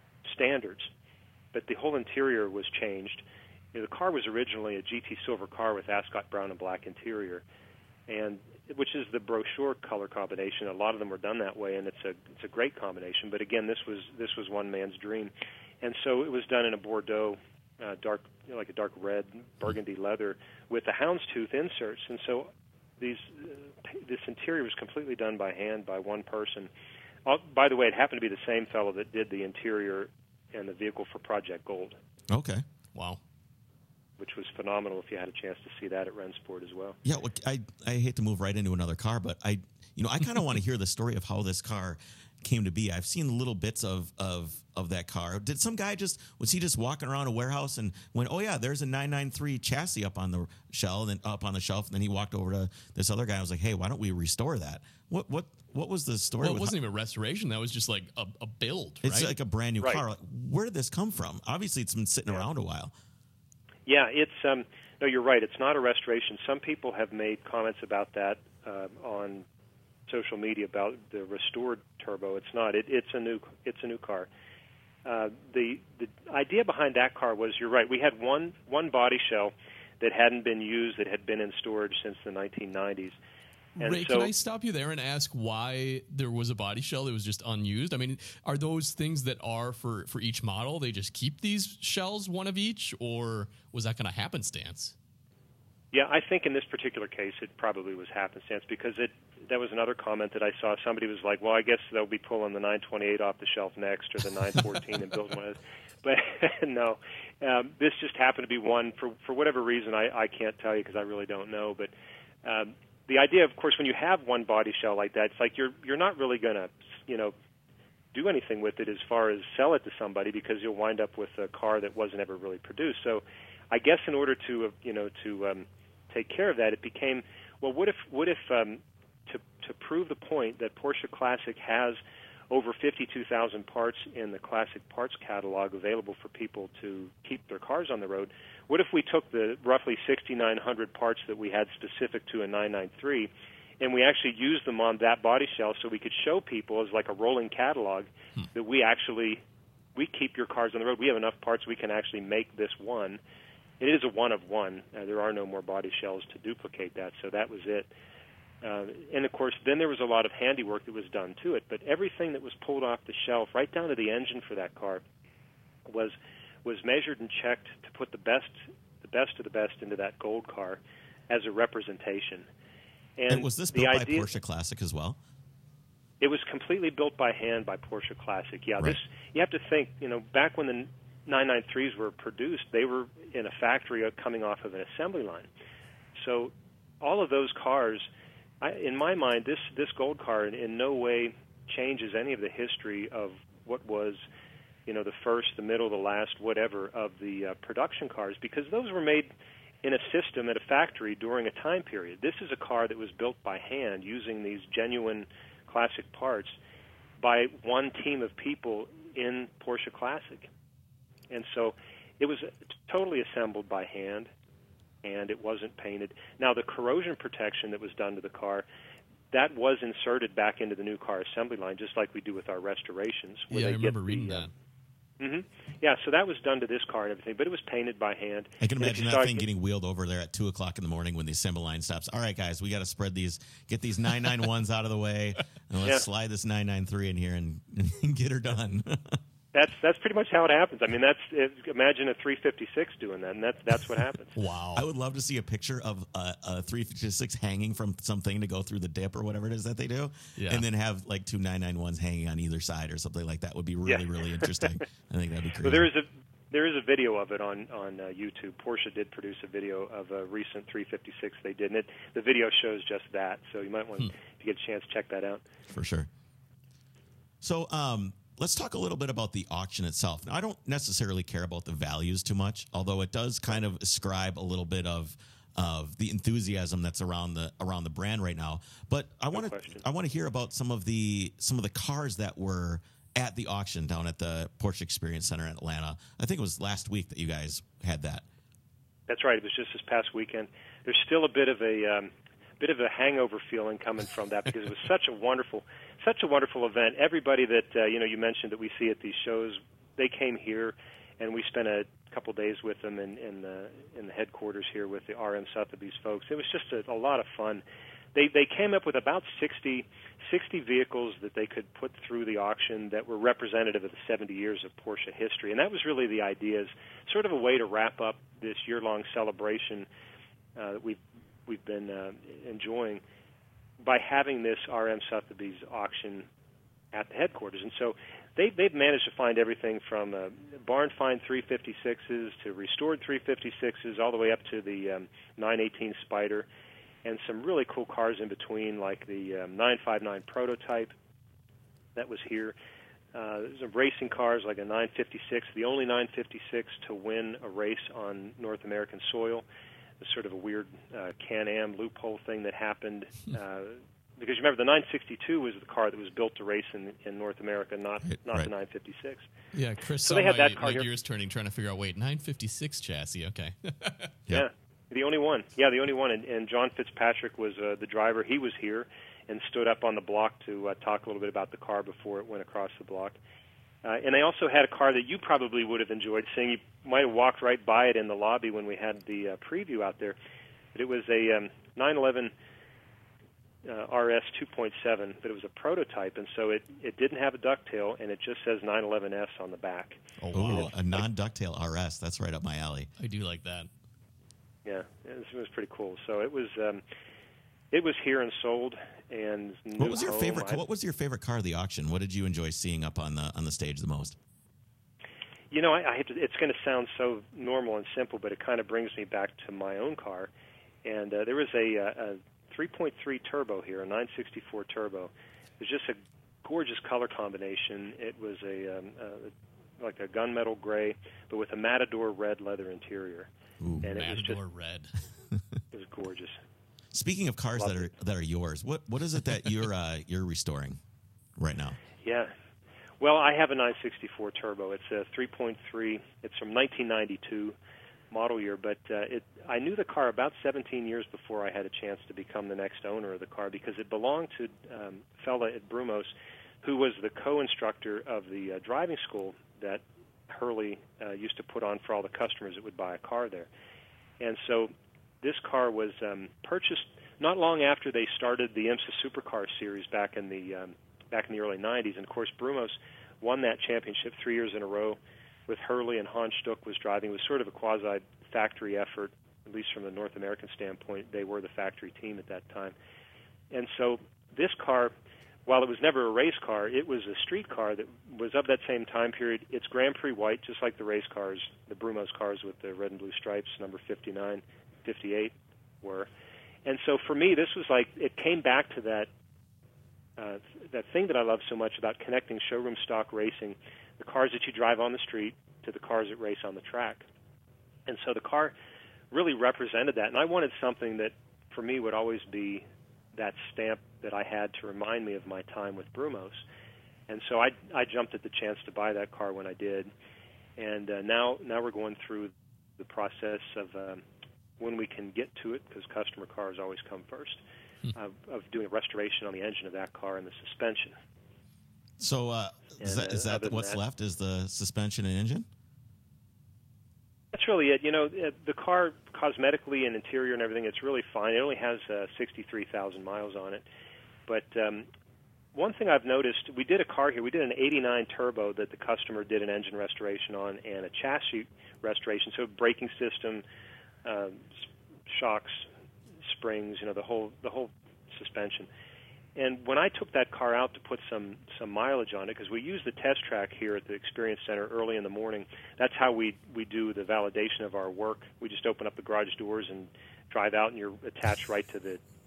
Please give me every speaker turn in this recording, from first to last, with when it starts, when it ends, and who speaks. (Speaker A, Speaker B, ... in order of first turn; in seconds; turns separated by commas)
Speaker A: 0.2-0.9, Speaker A: 1.5-7.4, Speaker A: 8.1-26.7, Speaker A: 27.2-32.0, Speaker B: 32.3-32.6, Speaker C: 32.9-33.2, Speaker A: 34.2-37.0, Speaker B: 37.0-56.7, Speaker C: 56.4-59.3, Speaker B: 59.0-62.9, Speaker A: 63.9-69.4, Speaker A: 70.1-74.3, Speaker A: 75.0-83.2, Speaker A: 83.8-84.3, Speaker C: 83.8-94.9, Speaker A: 95.9-111.9, Speaker A: 112.4-117.3, Speaker A: 118.1-132.0, Speaker A: 132.5-143.3, Speaker A: 143.8-149.4, Speaker A: 149.9-153.2, Speaker A: 153.8-157.9, Speaker A: 158.6-165.0, Speaker A: 165.8-172.4, Speaker A: 173.2-174.3, Speaker B: 173.3-175.2, Speaker A: 176.2-185.5, Speaker A: 186.2-188.1, Speaker A: 188.6-194.2, Speaker A: 194.8-199.3, Speaker A: 199.8-206.6, Speaker A: 207.2-210.5, Speaker A: 211.3-214.3, Speaker A: 215.0-218.6, Speaker A: 219.3-224.5, Speaker C: 223.5-224.5, Speaker A: 225.2-229.4, Speaker B: 228.6-239.2, Speaker A: 239.5-244.3, Speaker C: 244.3-244.8, Speaker B: 244.7-255.9, Speaker C: 250.4-250.6, Speaker A: 253.8-254.8, Speaker A: 255.6-265.4, Speaker B: 265.7-266.1, Speaker B: 267.4-288.2, Speaker A: 279.3-279.8, Speaker A: 289.1-307.6, Speaker A: 308.1-319.9, Speaker A: 320.6-323.0, Speaker A: 323.8-326.3, Speaker A: 326.9-336.5, Speaker A: 337.0-340.9, Speaker A: 341.9-342.5, Speaker A: 343.1-349.4, Speaker A: 350.0-359.2, Speaker B: 358.0-358.5, Speaker C: 359.5-364.1, Speaker A: 360.0-360.9, Speaker A: 364.3-373.2, Speaker A: 373.8-380.1, Speaker A: 380.7-382.3, Speaker A: 383.6-390.7, Speaker C: 390.2-390.7, Speaker B: 390.3-392.9, Speaker C: 393.0-393.7, Speaker A: 394.6-396.8, Speaker A: 397.7-400.6, Speaker B: 399.8-404.1, Speaker A: 405.5-410.3, Speaker A: 410.8-423.3, Speaker B: 423.6-423.9, Speaker C: 423.8-424.9, Speaker A: 423.8-424.4, Speaker A: 425.7-426.4, Speaker B: 426.9-430.8, Speaker A: 427.6-427.9, Speaker B: 431.4-431.8, Speaker A: 432.0-432.3, Speaker A: 433.0-437.6, Speaker A: 438.1-446.1, Speaker A: 446.6-453.5, Speaker A: 454.2-472.7, Speaker A: 473.5-474.9, Speaker A: 475.4-486.1, Speaker A: 486.6-489.1, Speaker A: 490.2-497.1, Speaker A: 497.9-498.5, Speaker A: 499.1-506.4, Speaker A: 507.1-509.9, Speaker A: 510.6-514.0, Speaker A: 514.6-517.4, Speaker A: 517.9-521.0, Speaker B: 522.0-525.5, Speaker A: 522.8-523.8, Speaker A: 527.3-533.6, Speaker A: 534.3-534.9, Speaker A: 535.5-543.4, Speaker A: 544.0-544.5, Speaker A: 545.1-545.6, Speaker A: 546.2-548.7, Speaker A: 549.4-562.0